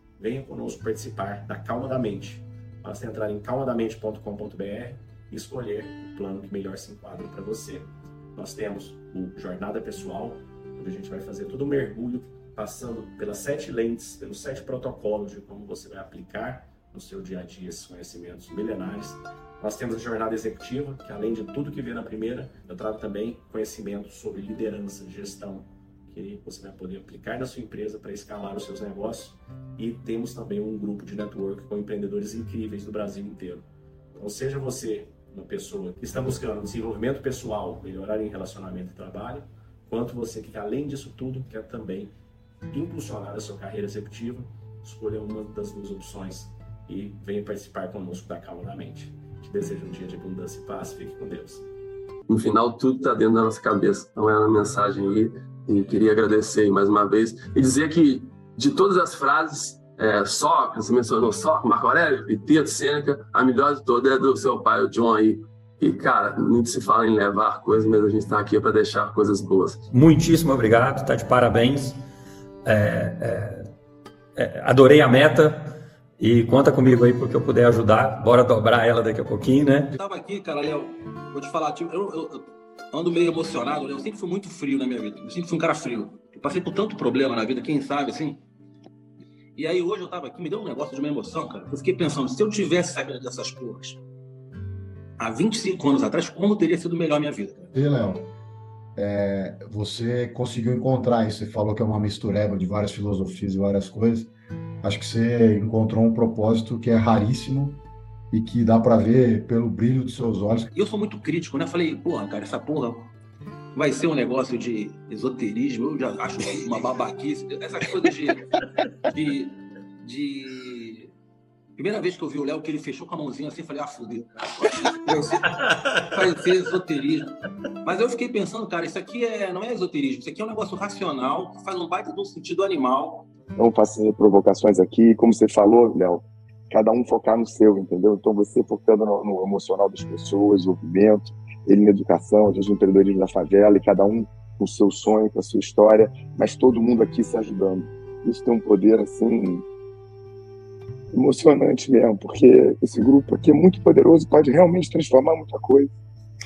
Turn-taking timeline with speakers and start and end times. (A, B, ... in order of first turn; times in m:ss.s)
0:00.2-0:42.1 A
0:42.7-0:51.6 A
0:52.3-1:09.8 B
1:09.9-1:12.0 C
1:12.6-1:13.6 C
1:14.4-1:15.6 C
1:16.2-1:19.9 C
1:19.9-1:28.4 D
1:29.6-1:34.0 D
1:35.2-1:37.7 D
1:37.7-1:38.3 E
1:39.0-1:44.3 E
1:44.8-1:50.7 E
1:50.7-1:53.1 D
1:53.7-1:58.4 D
1:59.0-2:01.1 D
2:01.8-2:05.6 D
2:06.1-2:13.3 D
2:13.6-2:29.6 F
2:31.1-2:35.9 F